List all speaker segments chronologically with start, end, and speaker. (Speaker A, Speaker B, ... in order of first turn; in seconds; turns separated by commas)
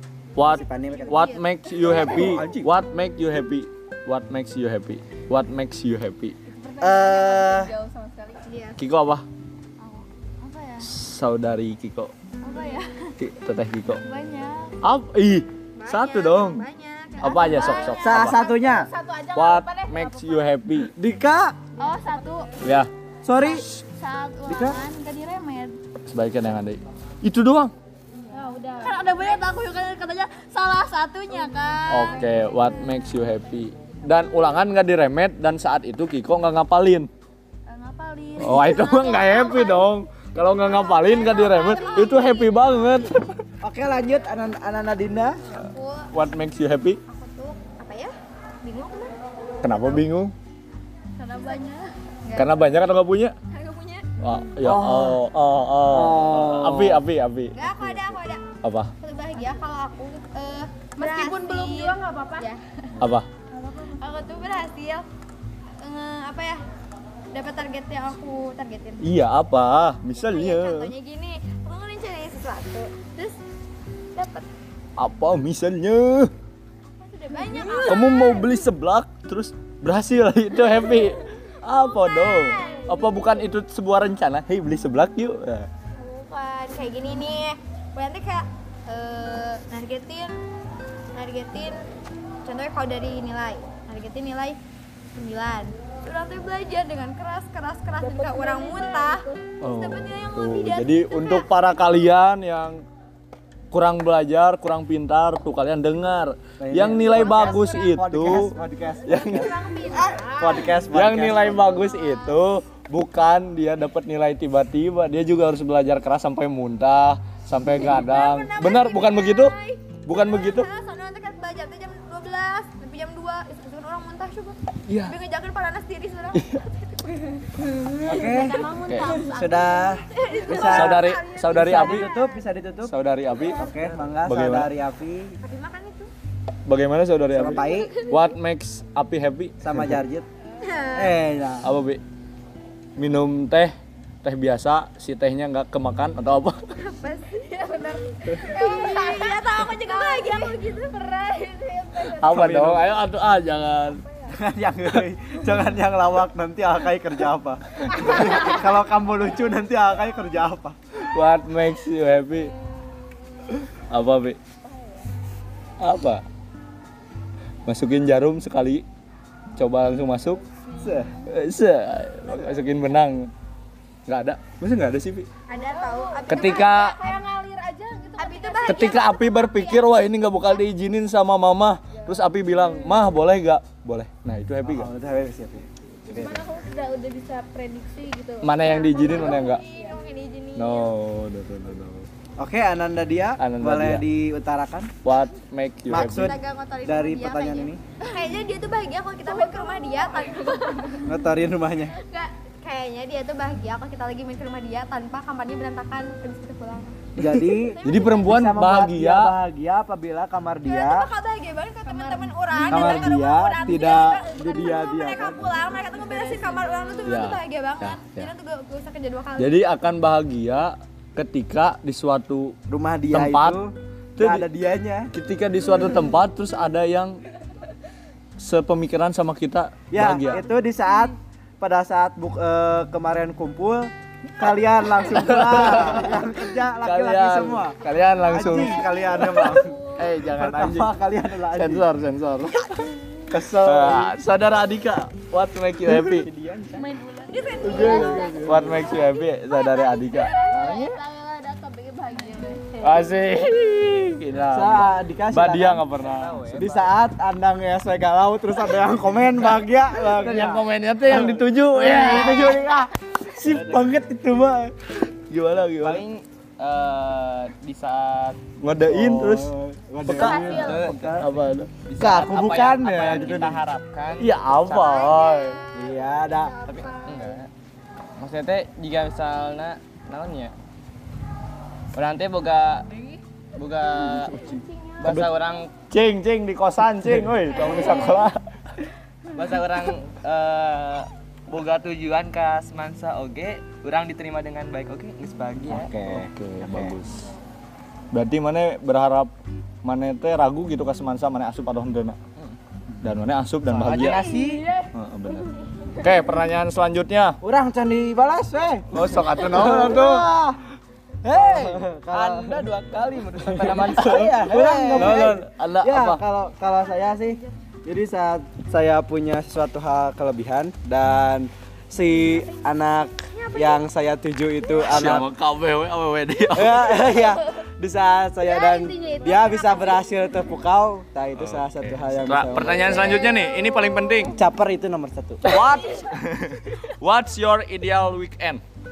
Speaker A: 0.3-6.4, Speaker B: 0.4-2.7, Speaker C: 0.8-1.4, Speaker D: 6.6-8.4, Speaker E: 6.7-7.9, Speaker B: 6.8-7.7, Speaker C: 8.4-8.8, Speaker A: 8.8-9.3, Speaker E: 9.8-10.9, Speaker A: 10.8-12.1, Speaker E: 12.4-13.1, Speaker A: 13.2-14.0, Speaker E: 14.0-14.8, Speaker A: 14.8-16.6, Speaker C: 15.8-18.2, Speaker A: 17.2-18.4, Speaker E: 17.4-18.3, Speaker D: 17.6-20.5, Speaker B: 18.0-18.9, Speaker A: 19.3-20.9, Speaker B: 20.9-21.6, Speaker D: 21.8-22.6, Speaker E: 21.8-22.6, Speaker A: 22.6-22.9, Speaker B: 23.2-23.7, Speaker E: 23.4-25.8, Speaker B: 24.5-24.8, Speaker A: 26.1-27.7, Speaker D: 28.3-29.4, Speaker E: 28.8-33.1, Speaker A: 31.9-37.1, Speaker D: 32.0-32.6, Speaker E: 37.7-39.9, Speaker A: 38.4-43.4, Speaker C: 40.6-42.6, Speaker E: 41.7-42.7, Speaker B: 43.6-45.4, Speaker C: 45.5-46.1, Speaker A: 46.1-47.0, Speaker C: 47.1-49.1, Speaker A: 49.6-50.3, Speaker E: 51.2-51.9, Speaker C: 52.2-52.6, Speaker A: 52.3-53.4, Speaker C: 53.5-54.1, Speaker A: 54.2-57.5, Speaker B: 54.5-55.2, Speaker B: 55.9-57.0, Speaker C: 57.5-58.4, Speaker B: 57.6-58.2, Speaker A: 58.6-58.9, Speaker C: 59.0-62.6, Speaker D: 61.0-62.5, Speaker E: 61.2-62.0, Speaker A: 63.0-63.3, Speaker C: 64.0-65.1, Speaker C: 65.8-66.6, Speaker C: 67.3-69.1, Speaker A: 69.0-70.9, Speaker C: 70.1-73.4, Speaker C: 74.2-74.5, Speaker A: 75.0-76.3, Speaker C: 76.9-78.3, Speaker D: 77.3-78.2, Speaker E: 77.6-77.9, Speaker A: 77.9-85.7, Speaker C: 81.9-83.1, Speaker D: 82.2-82.6, Speaker C: 86.0-90.4, Speaker C: 91.1-91.8, Speaker C: 92.4-94.6, Speaker C: 95.1-101.5, Speaker D: 98.0-99.4, Speaker A: 99.6-102.8, Speaker A: 103.7-108.6, Speaker B: 106.6-111.8, Speaker A: 109.1-109.5, Speaker C: 109.1-110.7, Speaker D: 109.8-110.7, Speaker A: 110.9-119.5, Speaker C: 117.7-126.7, Speaker A: 120.1-120.7, Speaker A: 124.9-125.2, Speaker A: 126.3-126.6, Speaker C: 127.6-129.5, Speaker D: 127.9-131.0, Speaker B: 128.0-135.4, Speaker A: 128.9-129.2, Speaker C: 130.1-132.5, Speaker A: 130.6-132.1, Speaker A: 132.9-134.7, Speaker C: 135.4-136.1, Speaker A: 136.7-139.9, Speaker B: 137.3-138.0, Speaker D: 137.7-138.2, Speaker B: 139.6-140.3, Speaker C: 140.6-141.2, Speaker B: 140.9-141.7, Speaker A: 141.6-142.0, Speaker A: 143.0-146.6, Speaker C: 146.8-147.5, Speaker D: 147.4-152.6, Speaker C: 148.4-150.9, Speaker A: 152.2-154.0, Speaker B: 152.2-152.9, Speaker B: 154.3-160.8, Speaker A: 160.9-162.5, Speaker D: 162.5-163.0, Speaker A: 163.6-164.4, Speaker D: 164.6-165.1, Speaker A: 165.8-166.2, Speaker A: 167.7-168.8, Speaker A: 169.6-170.4, Speaker D: 170.7-171.1, Speaker B: 170.8-171.1, Speaker A: 171.2-173.3, Speaker D: 172.3-172.6, Speaker A: 174.1-175.3, Speaker C: 175.5-177.2, Speaker D: 175.5-179.1, Speaker A: 176.3-177.0, Speaker C: 178.2-179.8, Speaker A: 178.7-184.9, Speaker D: 181.9-183.1, Speaker B: 184.6-186.4, Speaker D: 186.1-190.0, Speaker A: 188.4-189.6, Speaker C: 188.6-190.9, Speaker A: 190.6-192.1, Speaker B: 192.4-194.9, Speaker A: 193.4-194.1, Speaker A: 195.0-196.4, Speaker B: 195.9-197.8, Speaker D: 196.2-198.3, Speaker C: 198.0-201.0, Speaker D: 199.2-201.1, Speaker B: 201.0-201.9, Speaker C: 202.6-207.0, Speaker A: 207.2-209.3, Speaker B: 207.2-211.1, Speaker D: 207.6-208.3, Speaker C: 210.7-219.6, Speaker D: 211.8-217.2, Speaker B: 212.7-215.4, Speaker A: 217.0-218.3, Speaker A: 219.4-222.6, Speaker B: 222.7-225.1, Speaker A: 223.1-223.6, Speaker A: 224.2-224.5, Speaker A: 225.1-227.2, Speaker A: 228.4-230.5, Speaker B: 229.9-241.9, Speaker A: 235.0-240.9, Speaker D: 238.2-240.1, Speaker A: 241.5-242.7, Speaker B: 242.6-244.2, Speaker A: 243.4-246.3, Speaker B: 245.9-246.9, Speaker D: 246.8-253.0, Speaker C: 247.3-248.6, Speaker B: 247.6-248.9, Speaker A: 247.8-251.0, Speaker C: 250.2-250.5, Speaker A: 252.8-256.4, Speaker B: 254.5-255.9, Speaker F: 256.0-256.9, Speaker B: 256.5-262.8, Speaker A: 259.5-266.0, Speaker D: 261.9-262.2, Speaker E: 261.9-262.3, Speaker F: 263.4-263.9, Speaker F: 265.8-268.4, Speaker A: 268.6-269.5, Speaker B: 268.8-271.3, Speaker A: 270.1-271.7, Speaker F: 270.1-271.3, Speaker D: 270.2-270.8, Speaker F: 271.9-275.0, Speaker B: 272.0-273.6, Speaker A: 274.2-275.6, Speaker C: 274.8-277.4, Speaker B: 275.7-276.9, Speaker F: 277.1-277.5, Speaker F: 278.2-280.5, Speaker F: 281.9-282.9, Speaker F: 283.6-284.5, Speaker D: 284.2-285.2, Speaker F: 285.0-285.7, Speaker A: 285.9-288.4, Speaker D: 287.5-288.3, Speaker F: 289.3-295.9, Speaker B: 295.7-297.0, Speaker A: 296.0-297.3, Speaker A: 298.1-299.3, Speaker A: 299.8-302.2, Speaker A: 303.0-304.3, Speaker F: 303.7-304.6, Speaker D: 304.0-306.1, Speaker A: 304.9-307.4, Speaker B: 307.4-310.6, Speaker A: 308.9-310.4, Speaker B: 311.3-312.8, Speaker F: 311.3-315.3, Speaker A: 313.0-316.2, Speaker B: 313.6-325.3, Speaker D: 316.7-317.5, Speaker C: 322.3-322.6, Speaker C: 323.3-323.8, Speaker A: 324.8-326.9, Speaker B: 326.5-333.3, Speaker D: 328.4-330.2, Speaker C: 329.3-329.7, Speaker A: 331.4-334.4, Speaker D: 332.9-333.9, Speaker B: 334.3-335.6, Speaker A: 335.4-338.6, Speaker D: 335.6-336.0